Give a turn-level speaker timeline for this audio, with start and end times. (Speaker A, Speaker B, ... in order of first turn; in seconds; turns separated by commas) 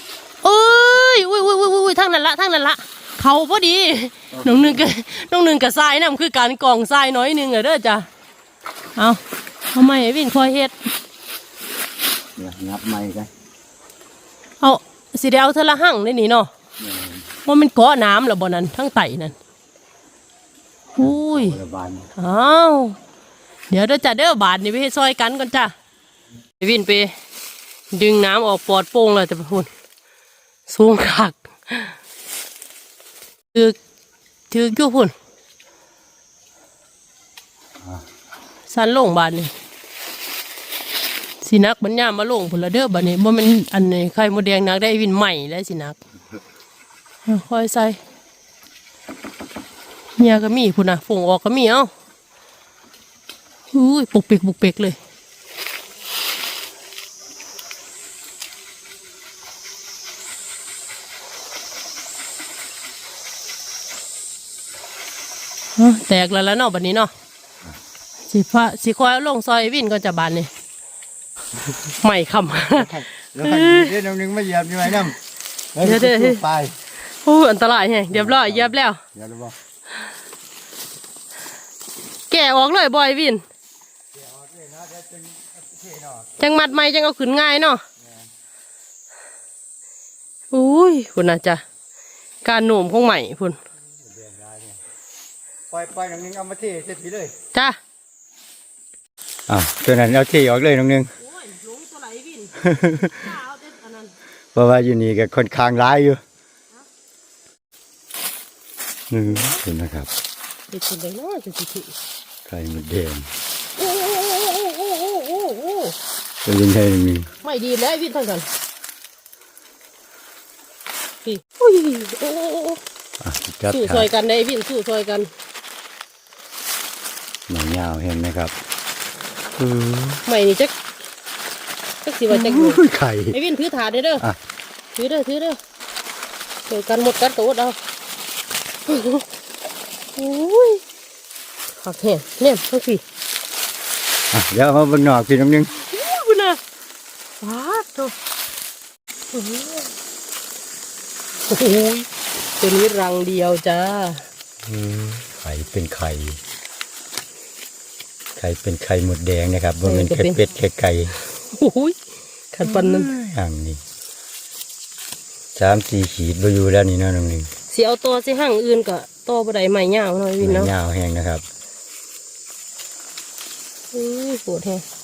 Speaker A: 0.4-8.1, Speaker A: 8.9-9.2, Speaker A: 9.7-10.8, Speaker B: 12.4-13.3, Speaker A: 14.6-16.5, Speaker B: 16.8-17.2, Speaker A: 17.4-19.4, Speaker A: 20.9-21.6, Speaker B: 21.0-22.1, Speaker A: 22.1-23.0, Speaker A: 23.7-25.7, Speaker A: 26.6-27.1, Speaker A: 27.9-29.7, Speaker A: 30.7-32.0, Speaker A: 34.5-35.1, Speaker A: 38.7-39.5, Speaker A: 41.4-46.0, Speaker A: 47.2-48.0, Speaker A: 50.2-51.9, Speaker A: 53.7-55.0, Speaker A: 65.8-67.1, Speaker A: 68.3-70.5, Speaker A: 72.0-72.9, Speaker B: 72.7-75.2, Speaker A: 73.4-73.9, Speaker B: 75.7-76.7, Speaker A: 75.8-76.4, Speaker A: 77.0-79.0, Speaker B: 78.1-79.5, Speaker A: 82.3-83.4, Speaker B: 84.5-86.2, Speaker A: 86.4-87.8, Speaker A: 90.5-91.6, Speaker A: 92.4-93.6, Speaker B: 94.1-94.7, Speaker B: 95.7-97.3, Speaker A: 97.5-97.8, Speaker B: 99.5-101.1, Speaker A: 101.2-102.5, Speaker B: 102.6-103.3, Speaker A: 103.2-104.1, Speaker B: 104.5-106.2, Speaker B: 109.1-110.1, Speaker A: 109.3-109.6, Speaker A: 110.7-112.0, Speaker B: 112.5-113.3, Speaker A: 113.8-116.0, Speaker B: 116.4-117.3, Speaker A: 117.4-118.5, Speaker A: 121.2-122.8, Speaker B: 123.2-124.1, Speaker A: 123.7-125.3, Speaker B: 127.5-128.5, Speaker B: 129.6-130.2, Speaker A: 130.2-130.9, Speaker A: 132.0-134.2, Speaker B: 132.3-133.4, Speaker A: 134.9-135.6, Speaker A: 136.7-137.8, Speaker A: 138.8-139.2, Speaker A: 140.1-140.8, Speaker A: 141.7-143.0, Speaker B: 144.3-145.7, Speaker A: 145.7-146.6, Speaker A: 147.4-148.1, Speaker A: 149.3-149.9, Speaker A: 151.5-152.1, Speaker A: 152.6-154.3, Speaker B: 154.7-156.4, Speaker B: 158.4-161.2, Speaker A: 159.8-160.4, Speaker A: 161.3-162.0, Speaker A: 162.5-163.1, Speaker B: 162.6-163.8, Speaker B: 165.6-167.5, Speaker A: 167.7-170.7, Speaker B: 170.4-171.4, Speaker A: 173.9-174.8